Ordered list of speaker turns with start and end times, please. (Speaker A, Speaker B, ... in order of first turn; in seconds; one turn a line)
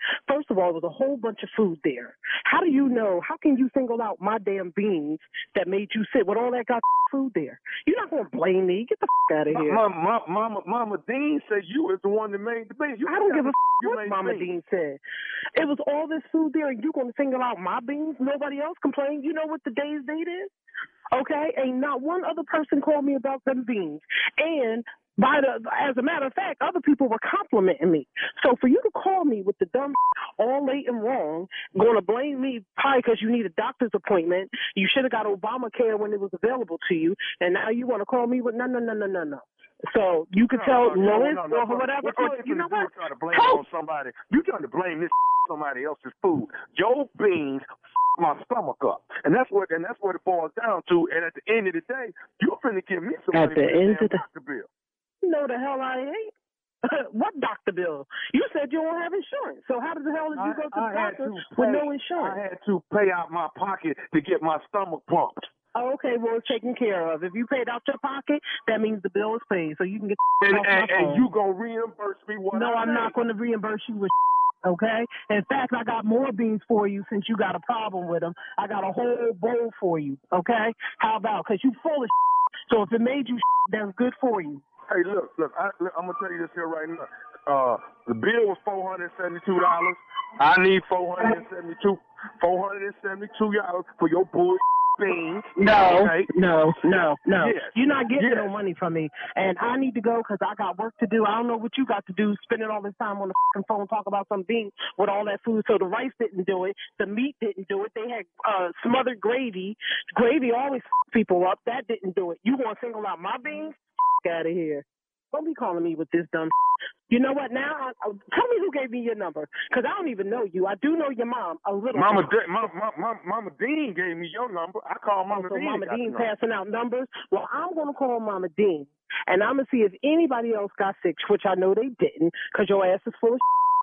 Speaker A: 0.3-9.8
Speaker B: 9.5-14.5
Speaker A: 13.1-15.0
Speaker A: 15.6-20.5
Speaker A: 21.1-43.6
Speaker B: 40.4-47.6
Speaker B: 48.2-54.7
Speaker A: 53.3-54.2
Speaker A: 55.2-56.3
Speaker A: 56.9-62.4
Speaker B: 60.4-65.5
Speaker A: 65.8-71.3
Speaker B: 70.4-73.2
Speaker A: 72.5-74.1
Speaker A: 74.7-82.1
Speaker A: 82.7-84.6
Speaker B: 84.9-96.3
Speaker A: 95.6-116.5
Speaker B: 97.4-98.5
Speaker A: 117.1-122.4
Speaker B: 121.9-126.3
Speaker A: 125.3-133.4